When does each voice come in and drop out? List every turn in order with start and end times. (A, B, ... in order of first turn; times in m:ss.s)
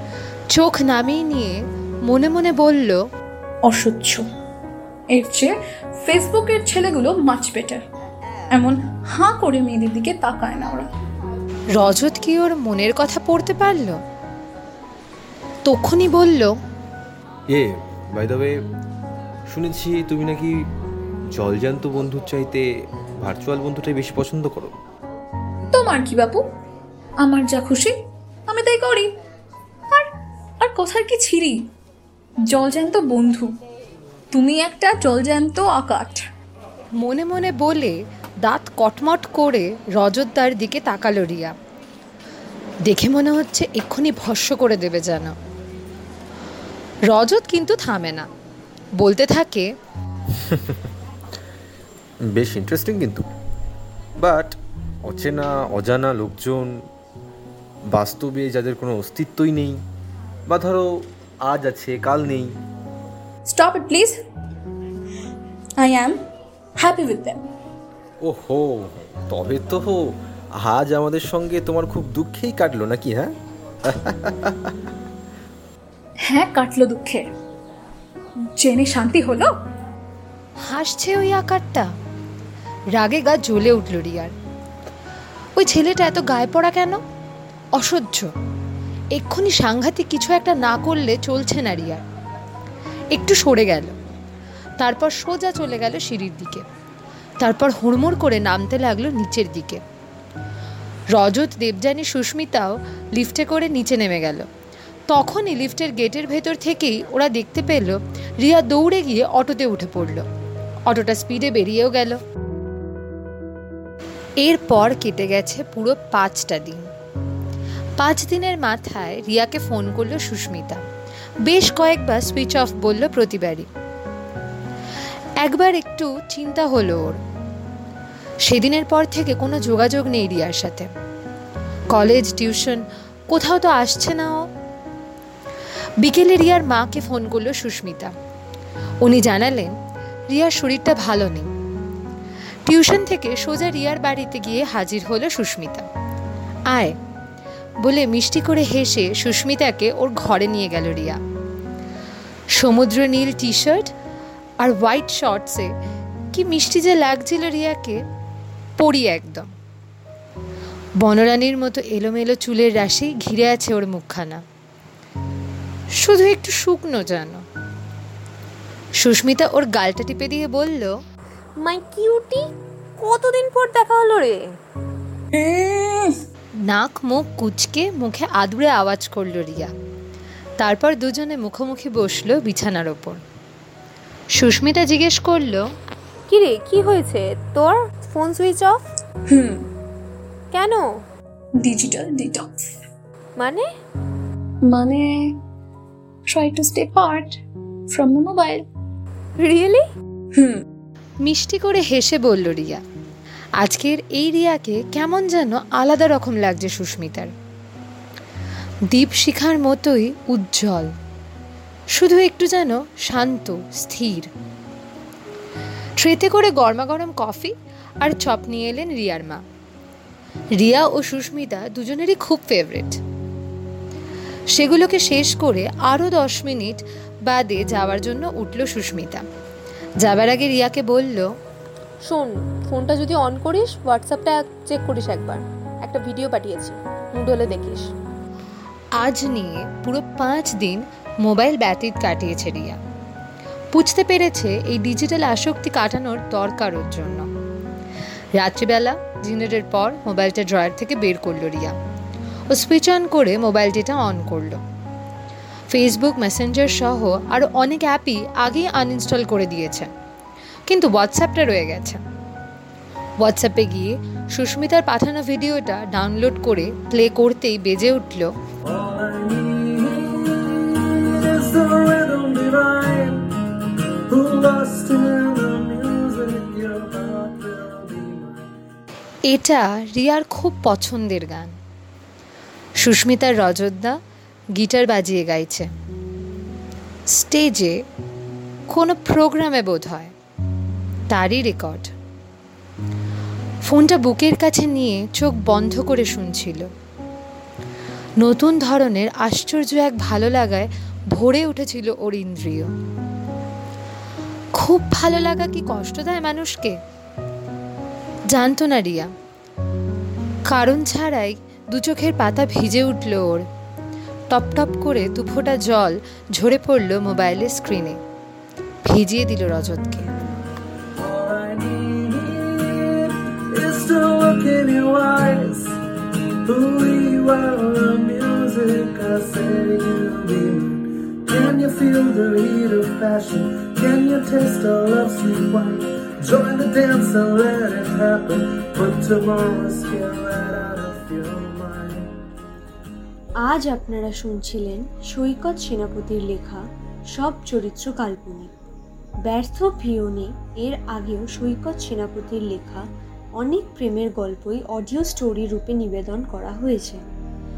0:00.5-0:03.0 A
0:03.6-0:04.3 B
0:05.1-0:07.8 B
0:08.5-0:10.9 B
0:11.8-0:14.0 A
0:15.6-0:16.5 A
0:17.5-0:18.5 C
0:19.5-0:20.6 C
0:21.3-0:24.8 C
0:25.7-0:26.4 B
0:27.2-0:27.9 B
0:28.5-0:29.1 B
0:30.6-0:31.6 B
0:32.5-0:33.5 B
0:34.3-0:36.2 B
0:37.0-0:41.5 A
0:42.8-0:45.3 A
0:47.1-0:48.3 A
0:49.0-0:49.6 A
0:52.3-0:53.2 C
0:54.2-0:56.7 C
0:57.9-0:59.8 C
1:00.5-1:02.5 C
1:03.4-1:04.2 B
1:05.8-1:06.2 B
1:06.8-1:07.4 B
1:08.2-1:13.3 C
1:13.9-1:14.7 C
1:16.3-1:17.3 B
1:18.5-1:19.5 B
1:20.6-1:21.9 A
1:22.9-1:24.3 A
1:25.6-1:27.0 A
1:27.8-1:28.3 A
1:29.1-1:32.0 A
1:33.1-1:33.9 A
1:34.8-1:36.6 A
1:37.4-1:39.8 A
1:41.1-1:44.5 A
1:45.1-1:50.2 A
1:50.9-1:52.2 A
1:54.4-1:56.8 A
1:58.0-2:00.8 A
2:01.4-2:03.7 A
2:05.4-2:07.2 A
2:08.4-2:10.9 A
2:11.9-2:14.5 A
2:16.0-2:18.1 A
2:19.0-2:19.7 A
2:20.3-2:21.5 A
2:22.6-2:25.9 A
2:26.7-2:26.9 A
2:27.8-2:31.2 A
2:32.5-2:33.9 A
2:34.6-2:35.7 A
2:36.3-2:38.0 A
2:38.8-2:39.5 A
2:41.0-2:44.4 A
2:46.0-2:47.4 A
2:49.0-2:50.9 A
2:51.6-2:52.4 D
2:53.0-2:54.4 D
2:55.3-2:56.2 B
2:56.7-2:59.7 A
3:00.6-3:03.2 A
3:04.4-3:05.6 A
3:06.3-3:08.8 D
3:09.3-3:09.6 B
3:10.5-3:10.8 D
3:11.6-3:12.7 B
3:13.4-3:13.6 D
3:14.6-3:15.4 B
3:16.3-3:17.4 B
3:17.9-3:18.6 B
3:19.4-3:19.8 D
3:20.3-3:20.6 B
3:21.2-3:22.8 A
3:23.6-3:27.3 A
3:28.9-3:30.9 A
3:31.9-3:34.3 A
3:36.0-3:39.4 A
3:40.6-3:43.0 A
3:44.5-3:49.2 A
3:50.0-3:51.3 A
3:52.1-3:57.9 D
3:59.0-4:02.8 A
4:03.7-4:07.3 A
4:08.4-4:11.8 A
4:12.5-4:14.6 A
4:15.7-4:19.9 A
4:20.7-4:22.0 A
4:23.2-4:28.3 A
4:28.7-4:33.2 E
4:34.1-4:38.5 E
4:39.3-4:41.5 A
4:42.8-4:44.0 A
4:44.6-4:45.7 A
4:47.1-4:47.8 A
4:48.7-4:50.1 A
4:51.1-4:51.9 A
4:53.6-4:56.7 A
4:58.2-5:02.7 A
5:04.6-5:06.8 A
5:08.3-5:09.1 A
5:10.5-5:13.4 A
5:14.3-5:18.0 A
5:18.8-5:20.1 A
5:21.0-5:25.7 E
5:26.4-5:42.1 E
5:43.4-5:48.5 F
5:49.2-5:52.8 F
5:53.4-5:57.0 F